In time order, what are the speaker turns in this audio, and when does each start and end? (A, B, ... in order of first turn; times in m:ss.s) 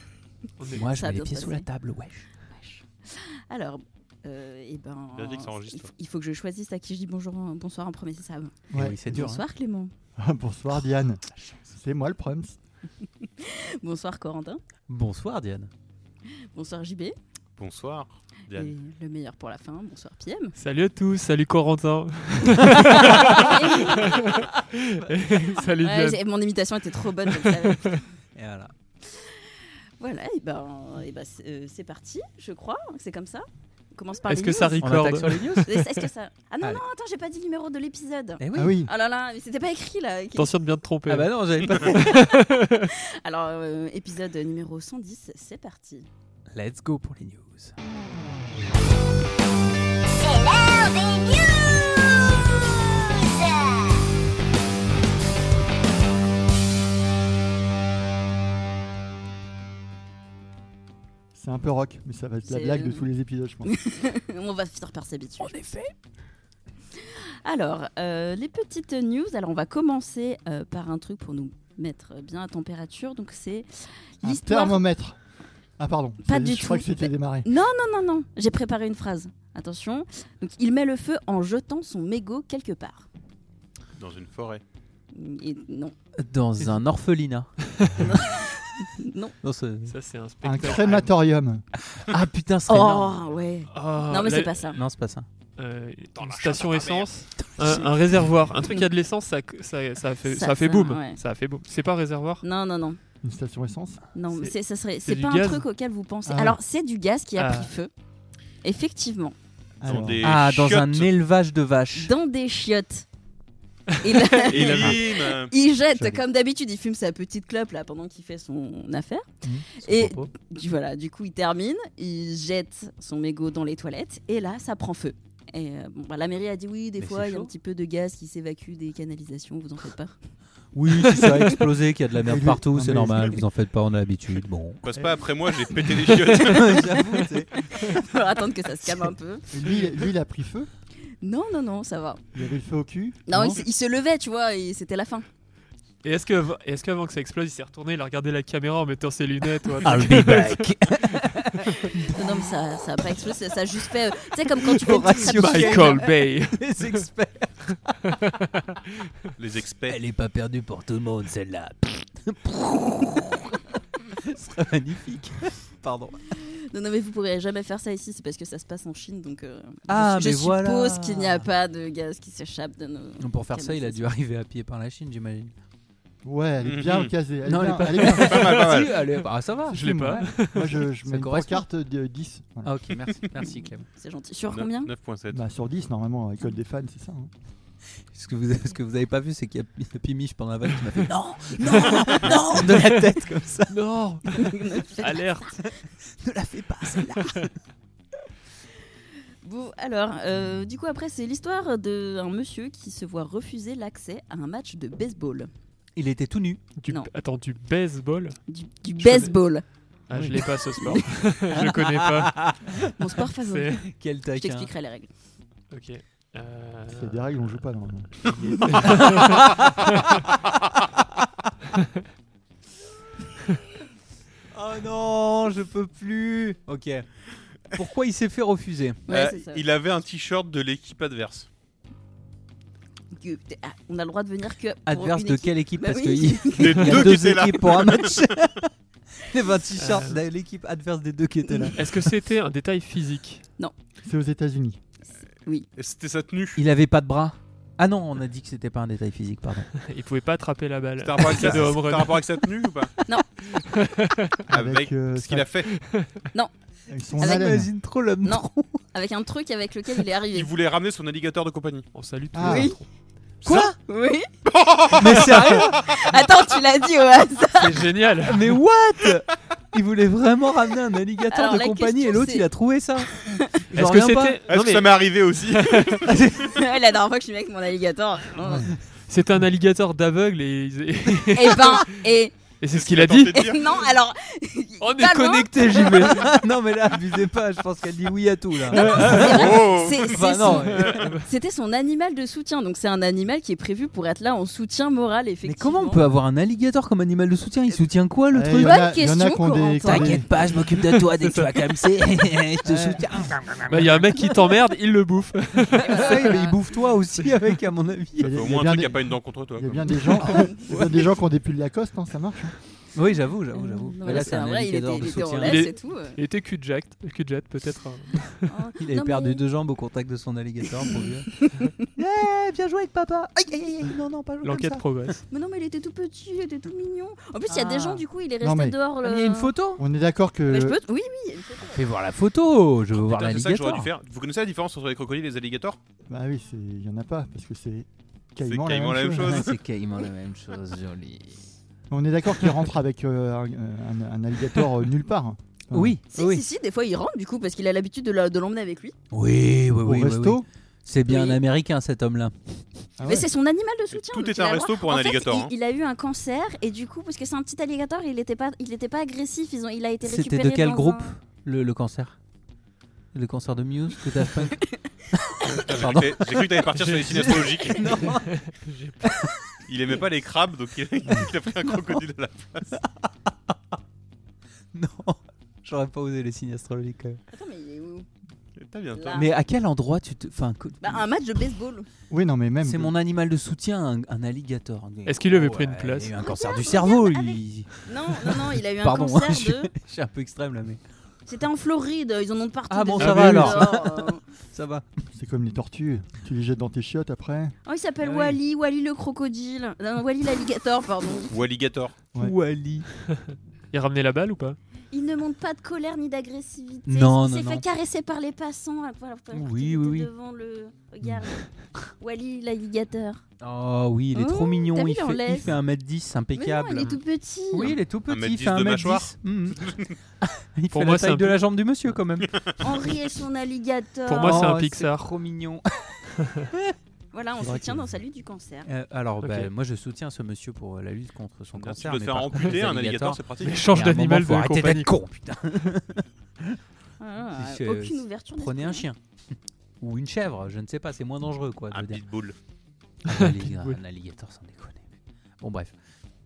0:00.6-0:00.9 A
0:00.7-0:02.3 B
0:00.8-0:01.7 C
0:02.5-0:09.9 C
0:05.1-0:05.9 D
0:08.7-0:09.0 E
0:08.7-0:09.4 B
0:10.2-0:12.6 E
0:13.2-0:14.6 C
0:14.9-0:15.7 B
0:16.5-0:17.1 C
0:17.6-0:18.8 D
0:18.5-0:20.6 C
0:20.6-0:26.2 A
0:22.7-0:28.0 C
0:27.3-0:28.0 A
0:28.4-0:28.7 B
0:29.0-0:34.9 C
0:34.3-0:36.1 A
0:34.8-0:35.8 B
0:35.6-0:40.5 C
0:38.4-0:38.9 B
0:38.6-0:38.9 E
0:40.4-0:42.9 A
0:41.1-0:42.0 B
0:42.9-0:46.1 C
0:46.5-0:47.7 B
0:50.1-0:52.1 F
0:53.0-0:53.8 F
1:01.4-1:03.7 E
1:02.5-1:03.1 C
1:03.6-1:05.6 C
1:05.4-1:05.9 B
1:07.0-1:14.8 C
1:14.2-1:15.2 E
1:15.8-1:17.5 E
1:16.2-1:23.1 C
1:24.0-1:24.6 D
1:25.1-1:25.9 C
1:26.2-1:28.3 B
1:28.0-1:29.4 C
1:29.4-1:29.9 B
1:29.9-1:31.1 A
1:30.4-1:31.6 E
1:31.9-1:33.2 B
1:32.7-1:34.8 C
1:33.7-1:34.8 A
1:34.7-1:35.3 B
1:35.6-1:42.4 A
1:36.2-1:37.1 D
1:37.4-1:37.9 B
1:40.3-1:41.2 C
1:42.4-1:43.0 C
1:43.2-1:44.0 E
1:44.1-1:47.9 C
1:44.3-1:45.6 A
1:46.3-1:46.6 E
1:47.4-1:47.7 A
1:48.6-1:49.4 C
1:49.8-1:50.4 E
1:49.8-1:51.1 D
1:50.2-1:52.1 B
1:52.0-1:53.1 C
1:54.0-1:59.3 C
1:54.1-1:54.4 A
1:54.5-1:55.5 D
1:55.9-1:56.2 B
1:59.8-2:00.3 B
1:59.8-2:10.2 C
2:07.0-2:07.5 B
2:10.7-2:14.8 B
2:12.2-2:13.4 E
2:14.8-2:16.9 D
2:15.0-2:15.3 E
2:15.8-2:18.0 B
2:17.6-2:19.5 C
2:19.5-2:20.7 E
2:21.2-2:22.2 C
2:22.3-2:23.6 E
2:23.3-2:25.3 C
2:26.0-2:31.2 A
2:29.8-2:32.5 B
2:31.9-2:36.1 C
2:34.6-2:38.2 B
2:35.1-2:37.0 A
2:38.1-2:38.8 A
2:39.4-2:40.0 D
2:39.9-2:46.2 B
2:46.4-2:54.1 C
2:49.9-2:51.5 B
2:53.2-2:55.5 B
2:56.2-2:58.9 E
2:56.6-2:57.1 D
2:57.5-2:59.8 B
2:58.1-2:59.2 D
2:59.7-3:02.9 E
2:59.7-3:00.8 A
3:01.1-3:01.6 B
3:02.6-3:03.9 B
3:04.0-3:04.9 C
3:04.5-3:05.4 D
3:05.3-3:07.3 E
3:08.1-3:13.8 B
3:11.7-3:12.9 A
3:12.0-3:12.6 C
3:13.7-3:15.6 A
3:14.4-3:15.3 C
3:16.0-3:17.5 B
3:19.4-3:25.5 C
3:26.0-3:26.6 B
3:26.8-3:28.4 A
3:28.5-3:29.6 C
3:29.0-3:29.4 A
3:30.1-3:32.4 A
3:30.1-3:30.4 E
3:31.5-3:32.9 B
3:33.0-3:33.8 C
3:33.4-3:33.9 A
3:34.0-3:34.7 B
3:34.3-3:35.1 C
3:35.7-3:37.5 A
3:36.9-3:39.0 E
3:38.2-3:39.7 A
3:44.5-3:47.1 B
3:47.7-3:49.0 B
3:49.1-3:49.6 C
3:49.1-3:51.5 D
3:53.1-3:57.1 C
3:54.9-4:01.9 B
3:56.6-3:58.3 D
3:59.8-4:00.2 A
4:01.8-4:03.5 A
4:04.0-4:04.8 E
4:05.8-4:06.6 D
4:06.6-4:09.7 B
4:09.8-4:12.5 A
4:11.0-4:12.9 D
4:13.5-4:14.4 A
4:14.5-4:15.5 E
4:14.5-4:15.7 D
4:15.7-4:16.2 A
4:16.9-4:17.7 E
4:17.2-4:18.8 B
4:17.2-4:17.6 C
4:18.2-4:20.5 C
4:20.3-4:21.9 D
4:21.9-4:22.9 A
4:22.3-4:22.7 E
4:22.4-4:22.8 C
4:23.4-4:23.8 B
4:23.5-4:24.3 C
4:24.5-4:26.2 D
4:25.0-4:25.8 B
4:25.1-4:27.9 C
4:27.6-4:28.6 A
4:27.6-4:34.4 B
4:31.3-4:32.5 C
4:33.1-4:33.6 C
4:33.8-4:36.1 A
4:34.5-4:36.2 D
4:36.0-4:36.6 B
4:36.4-4:38.7 C
4:38.4-4:38.7 E
4:39.1-4:42.0 A
4:41.3-4:42.4 C
4:42.6-4:43.4 A
4:42.7-4:43.9 D
4:43.3-4:45.7 C
4:44.8-4:46.2 A
4:45.3-4:51.2 B
4:48.7-4:56.0 C
4:48.7-4:49.7 A
4:49.2-4:50.2 D
4:50.5-4:51.3 A
4:55.4-4:58.9 B
4:58.3-5:00.3 E
4:58.6-5:00.3 C
4:59.8-5:04.3 B
5:02.6-5:03.0 E
5:03.7-5:06.3 A
5:05.8-5:08.4 B
5:05.8-5:06.6 C
5:08.2-5:12.6 E
5:08.2-5:09.9 D
5:10.2-5:10.9 B
5:13.0-5:15.7 B
5:13.5-5:16.2 C
5:15.4-5:18.5 A
5:18.5-5:19.4 C
5:18.8-5:24.8 B
5:20.8-5:21.8 C
5:24.4-5:25.2 A
5:25.3-5:29.6 C
5:27.5-5:28.0 B
5:28.4-5:28.8 E
5:29.0-5:29.8 B
5:29.8-5:30.8 E
5:30.5-5:31.9 C
5:31.7-5:33.9 B
5:32.9-5:35.8 D
5:36.1-5:39.4 E
5:38.4-5:39.6 D
5:39.2-5:41.4 B
5:41.9-5:46.0 E
5:45.7-5:46.4 B
5:46.1-5:49.0 C
5:49.1-5:52.6 B
5:49.8-5:50.5 E
5:51.1-5:51.4 C
5:53.0-5:53.3 E
5:53.0-6:01.2 C
5:53.9-5:55.5 D
6:00.0-6:02.2 B
6:03.1-6:08.4 B
6:05.4-6:08.0 D
6:06.7-6:07.5 A
6:08.1-6:09.1 A
6:09.0-6:09.3 B
6:09.7-6:12.8 D
6:12.7-6:13.6 B
6:14.7-6:17.2 B
6:17.3-6:18.1 C
6:18.6-6:19.2 D
6:18.9-6:19.3 C
6:19.1-6:21.1 B
6:20.8-6:21.9 C
6:22.1-6:23.0 E
6:22.6-6:30.8 B
6:25.1-6:26.1 A
6:26.2-6:29.7 C
6:31.3-6:34.2 C
6:32.7-6:34.8 B
6:33.0-6:33.6 A
6:35.1-6:37.6 E
6:37.7-6:41.3 C
6:38.0-6:38.4 B
6:41.3-6:42.0 D
6:42.2-6:42.9 B
6:43.3-6:44.6 A
6:44.9-6:53.2 C
6:46.9-6:47.6 B
6:49.3-6:50.1 B
6:53.4-6:57.0 B
6:54.1-6:55.6 C
6:56.3-6:57.8 C
6:57.5-7:02.3 B
6:58.1-6:59.9 D
7:00.7-7:01.4 A
7:02.3-7:02.6 D
7:02.6-7:04.5 C
7:04.1-7:05.1 A
7:04.2-7:06.0 B
7:07.1-7:08.7 C
7:07.4-7:07.8 E
7:08.6-7:16.6 B
7:09.2-7:09.5 A
7:11.6-7:13.7 D
7:13.4-7:15.0 A
7:17.0-7:18.9 C
7:17.4-7:19.0 B
7:19.8-7:22.0 B
7:21.7-7:22.4 D
7:23.1-7:24.9 B
7:23.1-7:23.8 A
7:25.4-7:25.7 B